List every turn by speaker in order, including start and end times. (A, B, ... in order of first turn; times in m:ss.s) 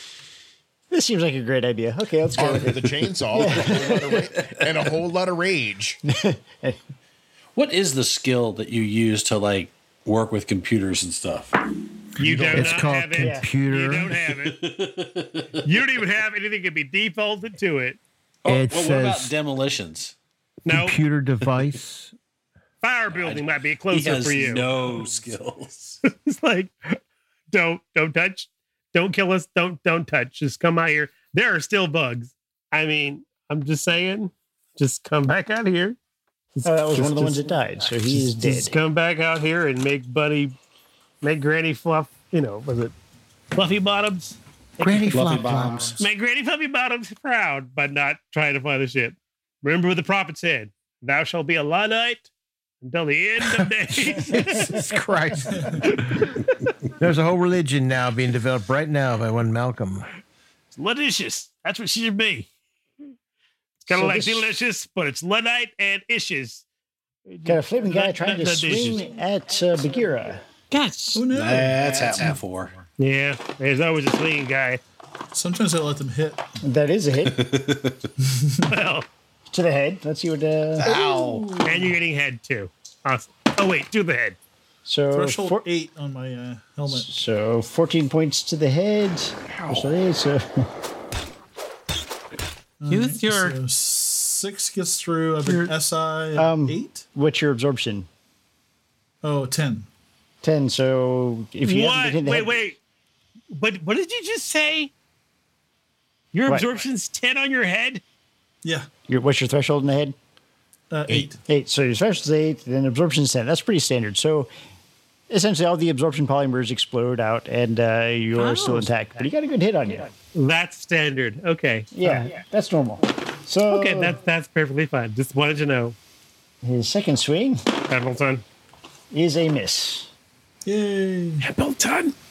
0:00.9-0:04.2 A
0:02.4-0:06.0 B
0:03.7-0:04.2 C
0:06.1-0:06.8 A
0:07.6-0:11.6 C
0:12.2-0:14.6 D
0:12.2-0:12.9 B
0:12.5-0:14.2 E
0:13.2-0:13.5 A
0:14.2-0:15.6 C
0:15.6-0:18.0 D
0:18.4-0:20.1 C
0:18.4-0:19.3 E
0:20.6-0:21.0 D
0:20.7-0:22.1 E
0:22.8-0:24.8 D
0:23.1-0:26.0 C
0:26.0-0:27.0 D
0:27.5-0:36.0 D
0:36.5-0:37.5 D
0:36.6-0:38.7 A
0:38.2-0:40.5 D
0:41.2-0:42.9 D
0:43.5-0:45.0 D
0:44.8-0:46.0 E
0:45.1-0:46.0 C
0:46.0-0:52.3 D
0:52.8-0:54.8 D
0:53.4-0:56.3 E
0:55.8-0:56.7 D
0:57.0-1:00.0 E
1:00.7-1:02.5 D
1:03.8-1:06.6 D
1:03.9-1:04.5 A
1:07.3-1:09.0 D
1:07.4-1:10.4 A
1:10.7-1:11.2 D
1:11.1-1:12.3 F
1:11.3-1:12.7 C
1:13.0-1:14.8 D
1:15.3-1:16.4 F
1:16.6-1:17.4 A
1:17.2-1:18.1 C
1:18.2-1:18.8 F
1:18.7-1:19.1 D
1:19.5-1:21.0 A
1:20.8-1:21.6 C
1:20.8-1:22.0 F
1:21.6-1:24.4 D
1:24.8-1:25.6 A
1:25.1-1:27.1 F
1:26.9-1:30.7 A
1:29.6-1:29.9 C
1:32.8-1:37.0 F
1:32.9-1:33.6 D
1:35.4-1:35.7 D
1:36.3-1:38.1 A
1:39.2-1:39.9 F
1:40.4-1:42.6 A
1:41.6-1:42.8 D
1:43.5-1:44.9 D
1:46.3-1:48.0 D
1:49.1-1:50.1 A
1:50.9-1:51.4 F
1:51.4-1:54.5 A
1:55.3-2:00.1 A
1:58.4-1:58.8 D
2:00.3-2:02.3 D
2:01.9-2:04.2 A
2:03.7-2:06.0 D
2:06.6-2:07.6 A
2:07.9-2:08.4 D
2:09.1-2:10.1 A
2:10.6-2:11.4 F
2:11.4-2:12.1 D